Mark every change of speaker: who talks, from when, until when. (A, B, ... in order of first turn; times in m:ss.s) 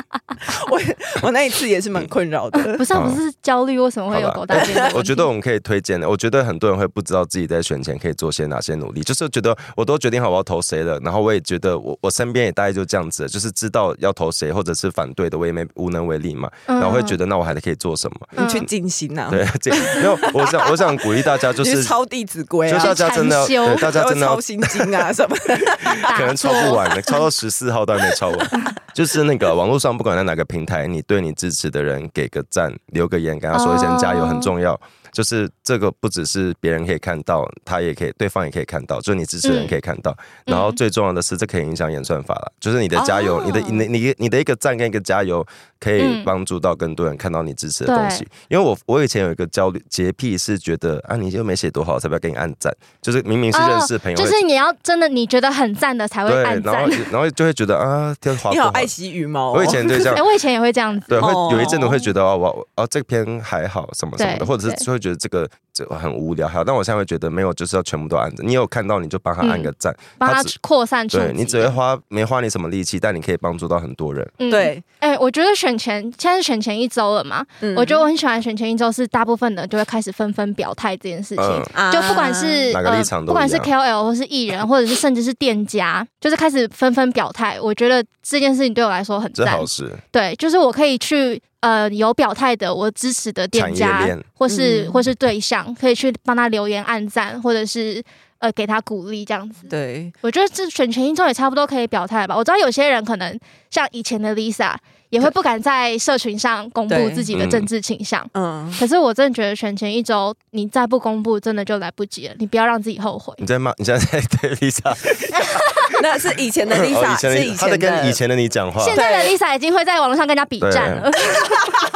0:00.4-0:02.8 A
0:02.6-0:05.3 B
0:02.9-0:03.2 C
0:04.1-0:18.6 C
0:04.5-0:05.0 A
0:16.7-0:17.2 B
0:18.4-0:18.7 B
0:18.4-0:23.0 A
0:19.3-0:22.0 C
0:22.7-0:25.0 C
0:22.8-0:23.9 B
0:23.6-0:26.1 A
0:25.8-0:54.4 C
0:26.0-0:27.2 B
0:33.5-0:34.5 B
0:39.4-0:39.7 B
0:40.5-0:40.8 B
0:43.0-0:43.8 A
0:46.0-0:46.3 B
0:47.8-0:48.2 B
0:53.5-0:57.1 B
0:56.2-0:58.9 C
0:58.5-1:00.2 A
0:59.5-1:00.2 C
1:00.1-1:02.0 B
1:01.1-1:10.5 C
1:01.1-1:01.9 A
1:04.2-1:04.8 B
1:09.4-1:11.8 B
1:11.1-1:14.3 C
1:14.4-1:39.7 B
1:14.5-1:14.8 A
1:17.6-1:18.0 A
1:21.4-1:21.7 C
1:21.7-1:22.7 A
1:22.7-1:23.7 C
1:29.3-1:30.0 C
1:33.5-1:34.3 C
1:34.5-1:35.0 A
1:39.7-1:40.1 A
1:40.2-1:53.4 B
1:46.9-1:47.3 A
1:47.3-1:47.7 C
1:48.3-1:48.8 A
1:53.4-1:55.9 C
1:55.9-1:58.2 A
1:56.8-1:59.0 C
1:58.8-2:01.7 B
1:58.9-1:59.3 A
2:00.6-2:01.1 C